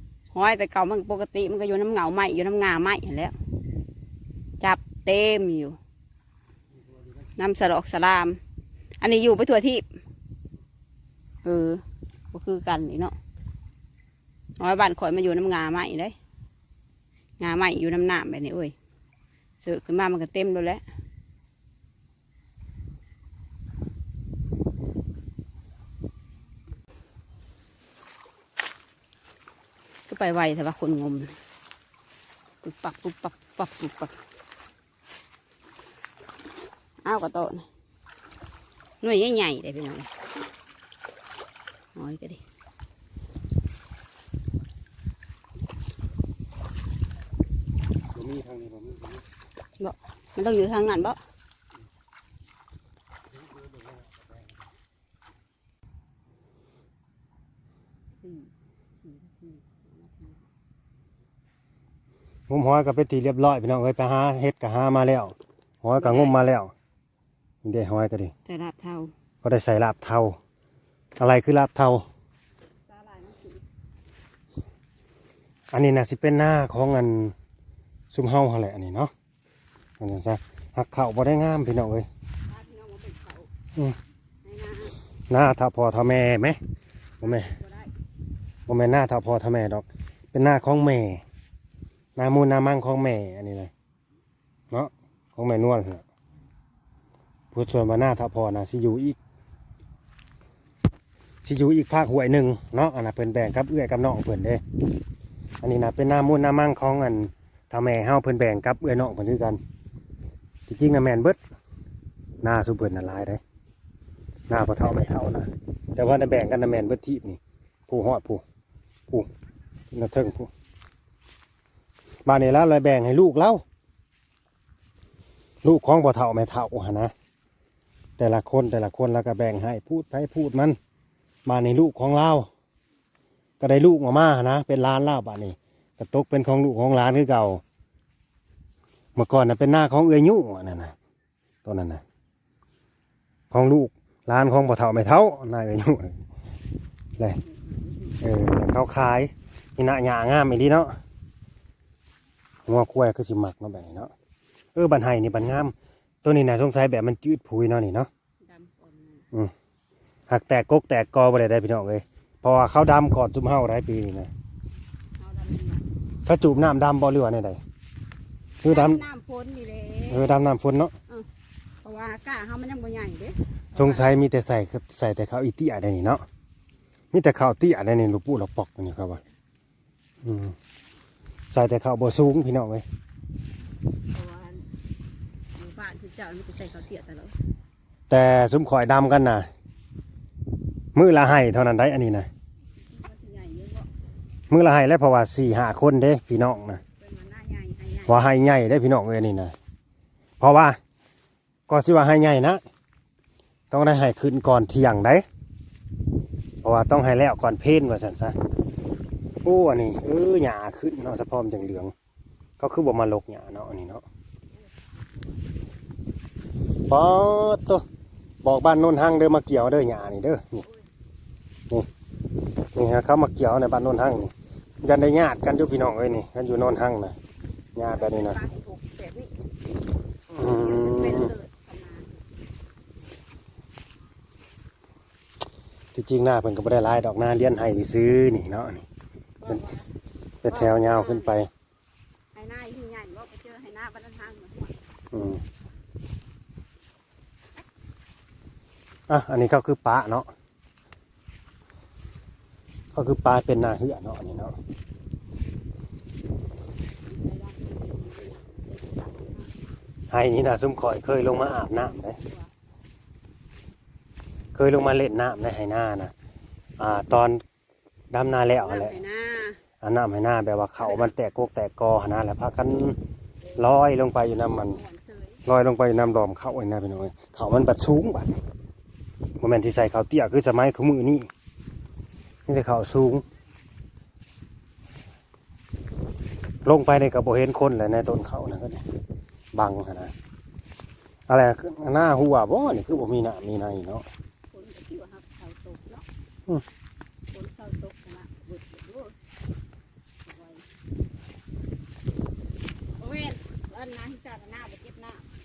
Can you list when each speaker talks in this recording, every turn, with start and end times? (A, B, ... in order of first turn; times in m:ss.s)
0:00.3-0:03.4 A
0:04.6-0:05.8 A
0:07.4-0:08.4 A
0:09.0-0:09.8 A
0:11.4-0:13.2 A
0:14.6-0:16.2 A
0:17.4-0:18.7 A
0:19.6-0:20.8 A
0:30.1-0:31.4 A
0:32.6-0:34.1 A
0:37.0-0:37.7 A
0:39.0-0:40.1 A
0:42.0-0:42.4 A
0:48.1-0:49.2 B
0:49.8-0:51.2 A
0:58.2-0:58.5 A
0:59.0-1:00.4 A
1:02.5-1:06.7 B
1:05.9-1:06.4 A
1:07.6-1:08.3 B
1:08.5-1:09.1 A
1:09.4-1:10.4 B
1:11.2-1:12.1 B
1:12.9-1:13.6 A
1:15.7-1:17.4 B
1:18.1-1:19.1 B
1:20.0-1:22.1 B
1:22.5-1:23.5 A
1:24.4-1:25.0 A
1:25.3-1:26.6 B
1:27.2-1:27.6 B
1:27.2-1:27.9 A
1:28.7-1:31.2 B
1:32.2-1:33.7 B
1:34.7-1:36.0 B
1:37.5-1:39.2 B
1:41.4-1:44.6 B
1:45.6-1:49.6 B
1:50.7-1:51.4 B
1:52.4-1:53.4 B
1:54.5-1:58.4 B
1:54.8-1:55.1 A
1:59.9-2:00.5 B
2:02.2-2:03.6 B
2:05.6-2:07.1 B
2:08.2-2:10.8 B
2:11.4-2:12.5 B
2:13.6-2:17.6 B
2:19.2-2:21.0 B
2:21.6-2:22.0 B
2:23.5-2:26.2 B
2:27.2-2:28.2 A
2:28.2-2:31.0 B
2:32.7-2:34.1 B
2:34.8-2:38.1 B
2:38.4-2:39.2 A
2:40.3-2:44.3 B
2:45.2-2:45.8 A
2:46.3-2:47.6 B
2:48.6-2:49.0 B
2:48.6-2:50.4 A
2:50.1-2:50.9 B
2:51.8-2:54.1 A
2:53.8-2:56.2 B
2:57.1-2:59.2 B
3:00.2-3:00.6 B
3:01.5-3:02.8 B
3:04.1-3:04.6 A
3:05.6-3:07.4 A
3:08.1-3:09.5 B
3:10.9-3:12.3 B
3:12.9-3:13.9 A
3:14.5-3:16.8 B
3:17.0-3:18.2 A
3:18.1-3:19.5 B
3:20.4-3:20.8 B
3:21.7-3:22.6 B
3:23.7-3:25.2 B
3:26.6-3:28.4 B
3:29.4-3:31.9 B
3:32.6-3:34.0 B
3:36.9-3:37.8 B
3:38.4-3:40.6 B
3:42.8-3:47.2 B
3:47.8-3:48.4 B
3:47.9-3:49.3 A
3:50.3-3:51.3 B
3:50.4-3:52.1 A
3:55.9-3:58.8 B
3:59.4-3:59.8 A
4:00.4-4:01.5 B
4:00.5-4:01.3 A
4:02.3-4:04.8 A
4:05.1-4:05.4 B
4:09.1-4:10.3 B
4:12.9-4:14.6 B
4:17.0-4:19.5 A
4:20.1-4:22.2 B
4:21.7-4:22.5 A
4:24.5-4:26.1 B
4:26.8-4:27.4 B
4:28.1-4:29.0 B
4:28.5-4:29.6 A
4:29.8-4:33.0 B
4:30.8-4:31.1 A
4:33.6-4:34.8 B
4:34.5-4:35.4 A
4:35.5-4:38.4 B
4:39.4-4:41.3 B
4:42.5-4:43.2 B
4:46.6-4:48.8 B
4:49.5-4:50.1 B
4:51.3-4:54.0 B
4:54.5-4:56.0 A
4:57.3-4:59.1 A
5:00.2-5:00.6 A
5:03.0-5:05.2 A